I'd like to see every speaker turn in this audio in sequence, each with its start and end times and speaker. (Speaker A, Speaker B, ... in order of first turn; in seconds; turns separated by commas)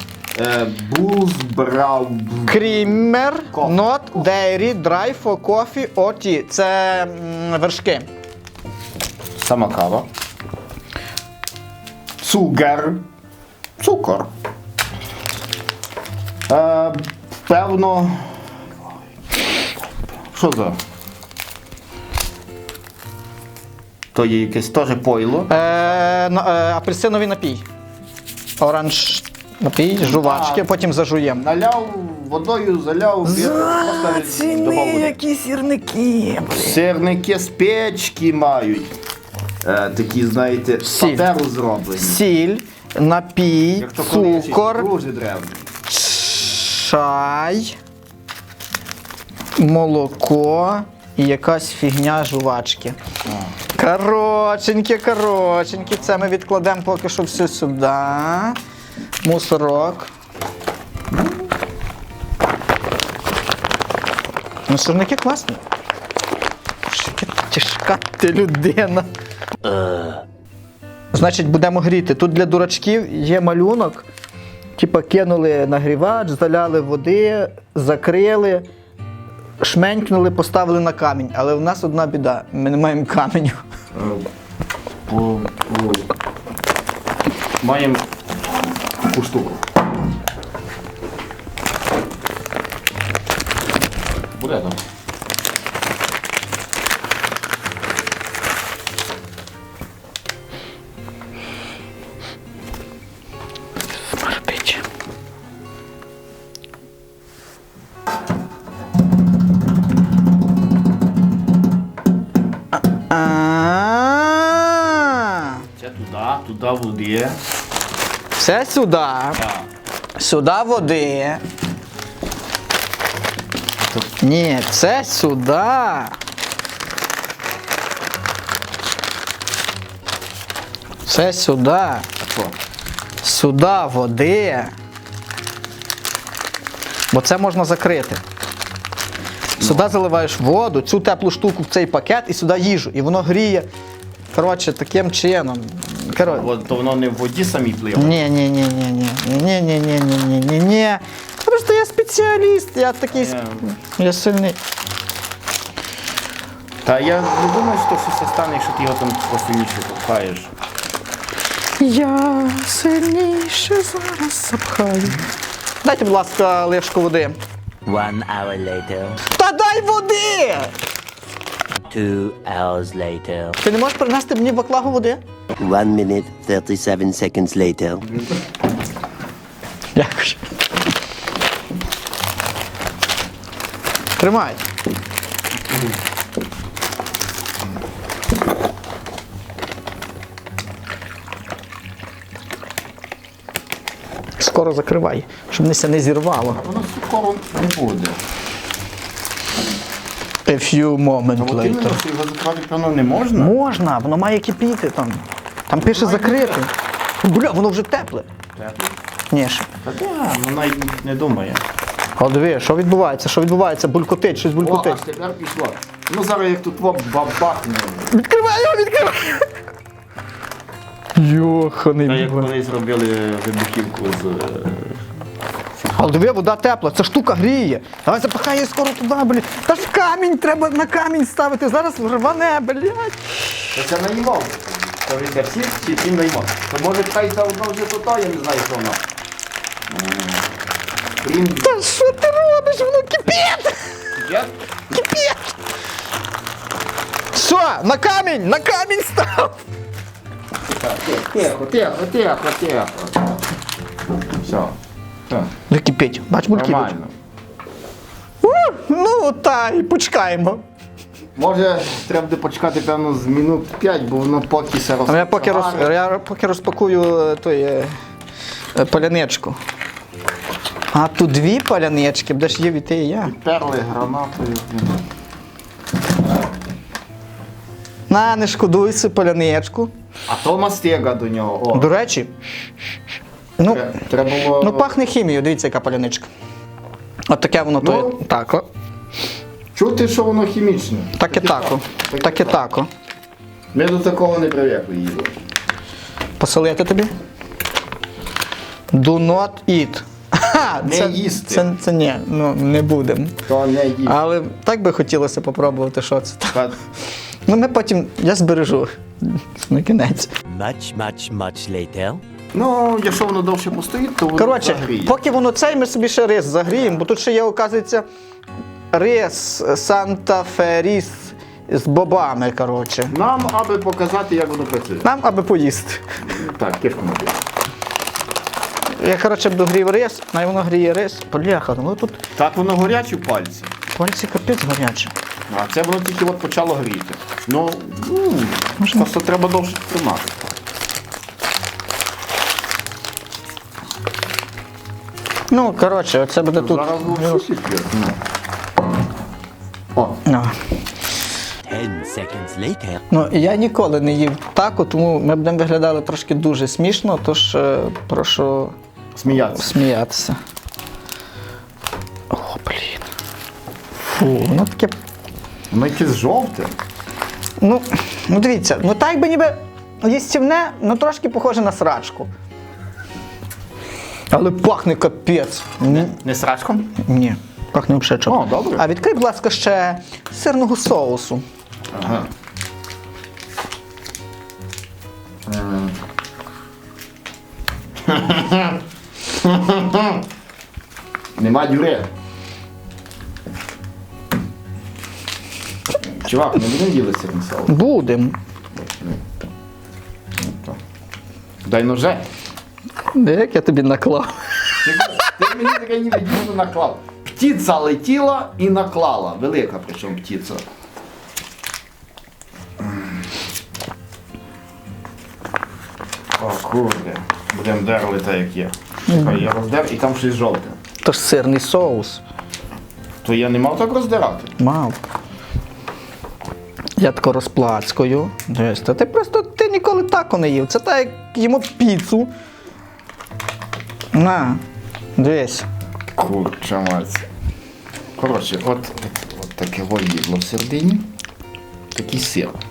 Speaker A: 0.3-2.9, Speaker B: 2.5-8.1, Speaker A: 3.5-3.8, Speaker A: 9.3-10.1, Speaker A: 12.2-13.0, Speaker A: 13.8-14.3, Speaker A: 16.5-18.7, Speaker A: 20.3-20.8, Speaker A: 24.1-25.5, Speaker B: 25.5-27.6, Speaker B: 28.6-31.5, Speaker A: 30.0-30.7, Speaker A: 31.3-35.2, Speaker B: 33.2-36.8, Speaker A: 36.6-38.9, Speaker A: 39.6-42.2, Speaker B: 40.8-41.3, Speaker B: 42.0-44.9, Speaker A: 43.8-45.7, Speaker B: 45.9-47.8, Speaker B: 49.6-53.0, Speaker B: 53.8-58.6, Speaker B: 59.2-60.1, Speaker B: 64.7-65.6, Speaker B: 66.9-69.1, Speaker C: 69.6-70.2, Speaker B: 71.1-74.1, Speaker B: 74.8-78.7, Speaker B: 79.6-83.6, Speaker A: 83.9-84.3, Speaker A: 85.1-86.1, Speaker A: 87.6-88.0, Speaker A: 89.0-89.7, Speaker A: 94.4-94.8, Speaker B: 104.1-104.8, Speaker B: 112.7-115.6, Speaker A: 115.8-117.4, Speaker B: 118.4-119.4, Speaker A: 119.4-119.7, Speaker B: 120.2-121.4, Speaker B: 124.2-126.2, Speaker B: 131.1-132.1, Speaker A: 132.2-132.5, Speaker B: 133.2-134.7, Speaker B: 137.1-138.2, Speaker A: 139.6-139.9, Speaker B: 139.6-143.7, Speaker B: 144.3-146.4, Speaker A: 146.2-148.2, Speaker B: 148.0-154.6, Speaker A: 153.1-153.7, Speaker A: 156.8-160.5, Speaker B: 161.8-165.2, Speaker B: 165.8-167.4, Speaker C: 167.9-169.2, Speaker B: 169.2-170.7, Speaker C: 171.9-173.6, Speaker B: 173.6-175.2, Speaker D: 175.6-178.0, Speaker B: 179.9-180.5, Speaker B: 184.2-184.6, Speaker B: 194.4-196.6, Speaker A: 196.5-198.2, Speaker B: 200.5-202.0, Speaker A: 201.4-203.5, Speaker B: 203.4-208.3, Speaker A: 205.8-206.6, Speaker A: 208.6-209.0, Speaker B: 209.3-209.7, Speaker A: 209.8-211.6, Speaker B: 212.2-215.0, Speaker A: 214.6-218.1, Speaker B: 218.1-219.5, Speaker B: 221.2-222.5, Speaker A: 222.1-225.0, Speaker B: 225.9-233.7, Speaker A: 233.7-239.0, Speaker A: 239.9-240.4, Speaker A: 241.2-241.7, Speaker B: 241.6-244.0, Speaker A: 244.2-244.5, Speaker B: 244.9-245.5, Speaker B: 247.3-249.6, Speaker A: 250.8-253.4, Speaker A: 254.4-254.8, Speaker B: 255.7-256.9, Speaker A: 256.5-257.1, Speaker B: 258.4-260.6, Speaker A: 261.4-265.9, Speaker B: 265.1-267.9, Speaker B: 268.8-269.6, Speaker B: 270.9-273.3, Speaker A: 273.2-275.0, Speaker B: 278.1-279.9, Speaker A: 280.3-281.9, Speaker B: 281.7-282.3, Speaker B: 283.6-283.8, Speaker A: 283.6-284.9, Speaker B: 284.5-286.3, Speaker B: 287.3-288.7, Speaker A: 287.8-288.2, Speaker A: 289.7-292.6, Speaker B: 291.2-292.9, Speaker A: 293.7-295.4, Speaker B: 296.4-297.1, Speaker B: 298.9-303.4, Speaker A: 300.8-301.7, Speaker A: 303.5-304.2, Speaker B: 304.1-306.7, Speaker B: 307.5-310.3, Speaker C: 310.5-312.2, Speaker A: 312.5-315.2, Speaker B: 314.4-318.0, Speaker B: 318.9-323.1, Speaker A: 323.1-325.1, Speaker B: 325.0-326.1, Speaker A: 326.2-327.4, Speaker B: 329.0-332.2, Speaker A: 332.4-333.7, Speaker B: 333.9-335.1, Speaker A: 335.5-340.4, Speaker B: 338.8-339.1, Speaker B: 345.5-347.4, Speaker A: 346.6-348.2, Speaker A: 349.9-350.2, Speaker B: 350.2-350.6, Speaker C: 351.7-353.0, Speaker B: 353.1-358.8, Speaker A: 359.1-359.8, Speaker B: 359.6-360.4, Speaker B: 362.3-363.0, Speaker B: 364.0-365.0, Speaker A: 365.7-366.8, Speaker B: 367.6-372.3, Speaker B: 374.3-376.1, Speaker A: 375.9-377.0, Speaker B: 377.0-381.4, Speaker A: 378.3-378.9, Speaker A: 381.9-382.3, Speaker A: 385.5-385.9, Speaker A: 388.0-390.2, Speaker A: 391.4-392.1, Speaker A: 396.1-397.8, Speaker B: 397.7-398.4, Speaker A: 398.8-399.2, Speaker A: 400.4-400.8, Speaker A: 401.6-402.3, Speaker B: 403.1-405.5, Speaker A: 404.8-410.6, Speaker A: 412.8-413.1, Speaker A: 416.4-420.8, Speaker B: 419.1-419.4, Speaker B: 421.0-422.2, Speaker A: 423.2-424.6, Speaker B: 424.6-425.0, Speaker B: 427.0-432.3, Speaker B: 434.1-434.6, Speaker B: 435.2-435.7, Speaker A: 436.1-437.3, Speaker A: 438.2-441.1, Speaker A: 441.9-442.6